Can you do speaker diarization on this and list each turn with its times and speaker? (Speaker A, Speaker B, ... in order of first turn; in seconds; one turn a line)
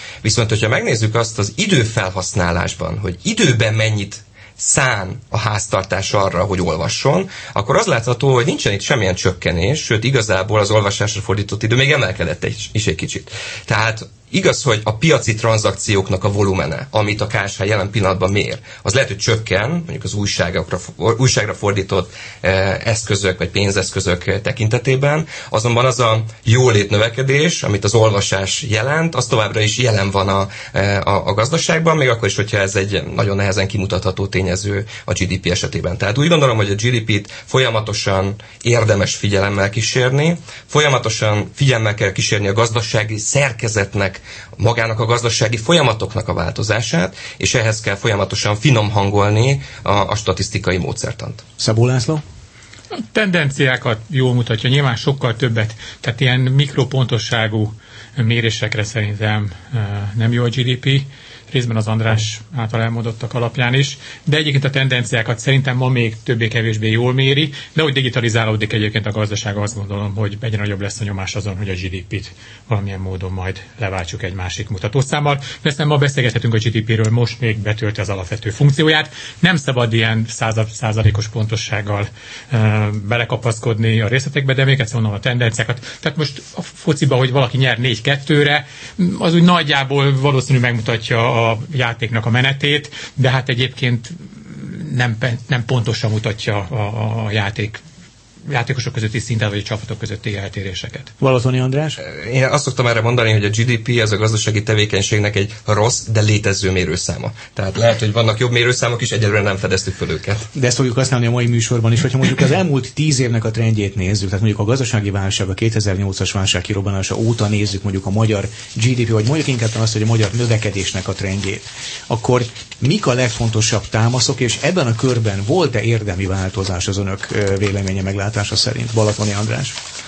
Speaker A: 0.2-51.4
Speaker B: 51.6-52.2
Speaker C: 52.9-97.8
Speaker C: 98.5-101.1
Speaker B: 101.2-102.0
Speaker A: 102.0-110.5
Speaker B: 110.5-129.8